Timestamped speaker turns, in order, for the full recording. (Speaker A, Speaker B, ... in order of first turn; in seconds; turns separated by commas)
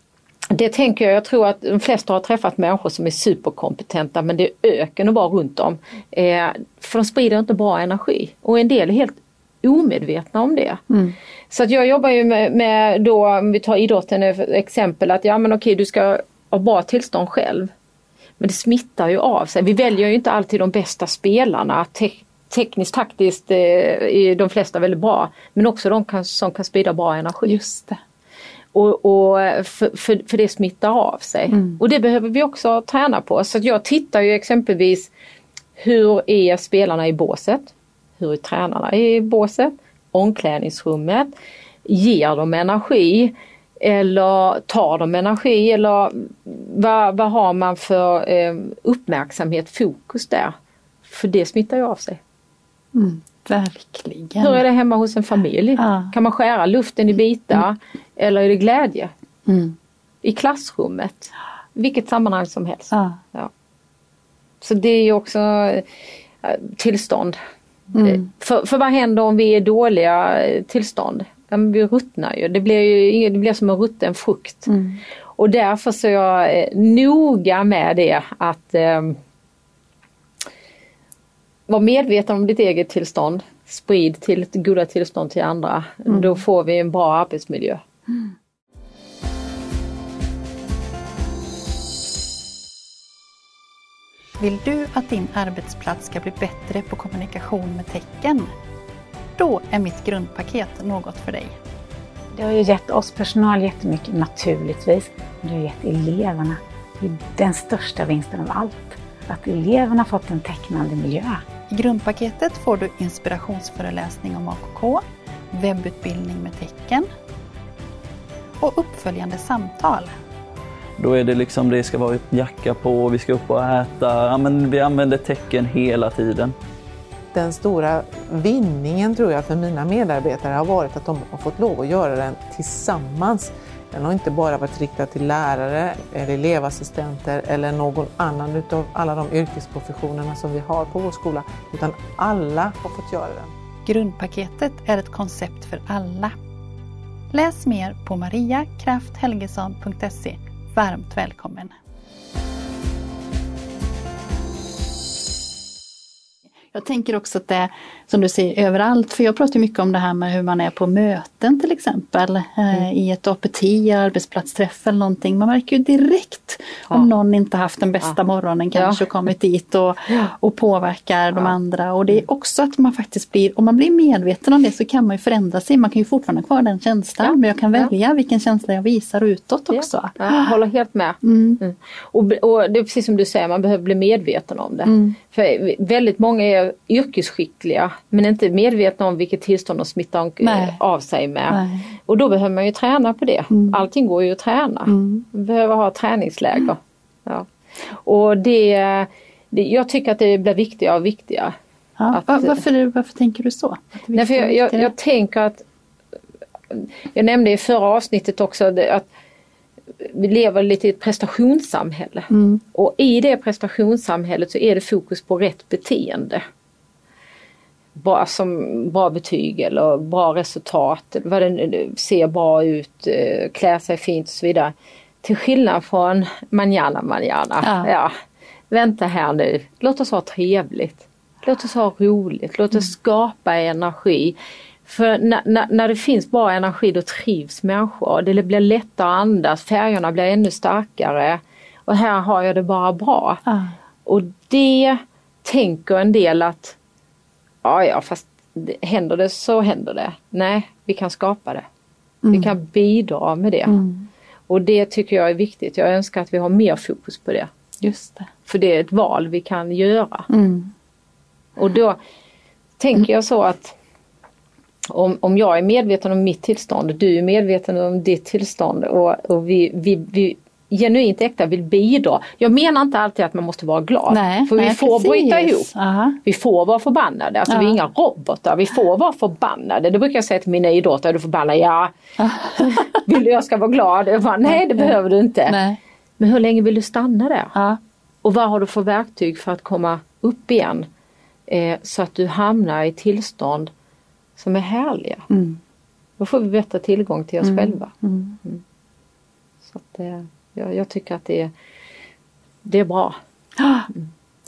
Speaker A: 0.5-10.8, Speaker B: 10.9-11.2, Speaker A: 11.5-17.7, Speaker A: 18.4-27.6, Speaker B: 27.4-28.0, Speaker A: 28.7-35.1, Speaker B: 31.5-31.8, Speaker A: 35.8-41.3, Speaker A: 41.9-50.5, Speaker A: 51.0-52.2, Speaker B: 53.0-54.6, Speaker A: 54.4-59.1, Speaker B: 55.8-56.1, Speaker B: 59.5-59.8, Speaker A: 60.2-63.5, Speaker B: 62.9-63.2, Speaker A: 64.6-65.8, Speaker A: 66.4-67.4, Speaker B: 68.0-68.2, Speaker A: 68.0-74.8, Speaker B: 74.7-75.0, Speaker A: 75.4-79.2, Speaker A: 81.7-87.8, Speaker B: 86.1-86.3, Speaker B: 94.4-98.5, Speaker B: 99.4-101.5, Speaker C: 102.3-111.4, Speaker B: 111.7-117.1, Speaker B: 118.6-120.1, Speaker D: 121.0-126.5, Speaker E: 127.3-143.5, Speaker B: 143.8-146.3, Speaker B: 147.3-151.7, Speaker B: 156.7-180.5, Speaker A: 177.2-177.9, Speaker A: 179.7-201.6, Speaker B: 181.2-181.6, Speaker B: 184.9-185.2, Speaker B: 190.4-190.8, Speaker B: 191.5-191.9, Speaker B: 193.5-193.8, Speaker B: 194.9-195.2, Speaker B: 202.0-204.9, Speaker A: 202.1-202.6, Speaker A: 204.1-205.7, Speaker A: 206.7-209.1, Speaker A: 210.0-216.4, Speaker B: 212.3-212.6, Speaker A: 218.0-228.1, Speaker B: 227.6-227.9, Speaker A: 228.7-243.4, Speaker B: 243.5-243.7, Speaker A: 244.1-246.8, Speaker A: 247.6-251.7, Speaker B: 252.2-252.5, Speaker A: 252.3-253.8, Speaker B: 253.7-254.1, Speaker A: 254.5-257.5, Speaker B: 257.8-258.3, Speaker A: 258.5-260.3, Speaker B: 260.3-260.7, Speaker A: 261.6-262.0, Speaker A: 262.8-263.8, Speaker A: 264.9-275.7, Speaker B: 274.1-276.2, Speaker A: 276.2-281.9, Speaker B: 277.5-277.8, Speaker B: 282.2-283.0, Speaker A: 282.6-285.6, Speaker B: 284.5-284.9, Speaker B: 285.5-285.8, Speaker A: 286.2-287.5, Speaker B: 287.5-287.8, Speaker A: 288.2-290.9, Speaker A: 291.5-293.7, Speaker A: 294.4-295.2, Speaker B: 295.3-295.6, Speaker A: 296.2-297.9, Speaker B: 297.4-298.4, Speaker A: 299.7-301.5, Speaker A: 302.6-303.2, Speaker B: 303.6-303.9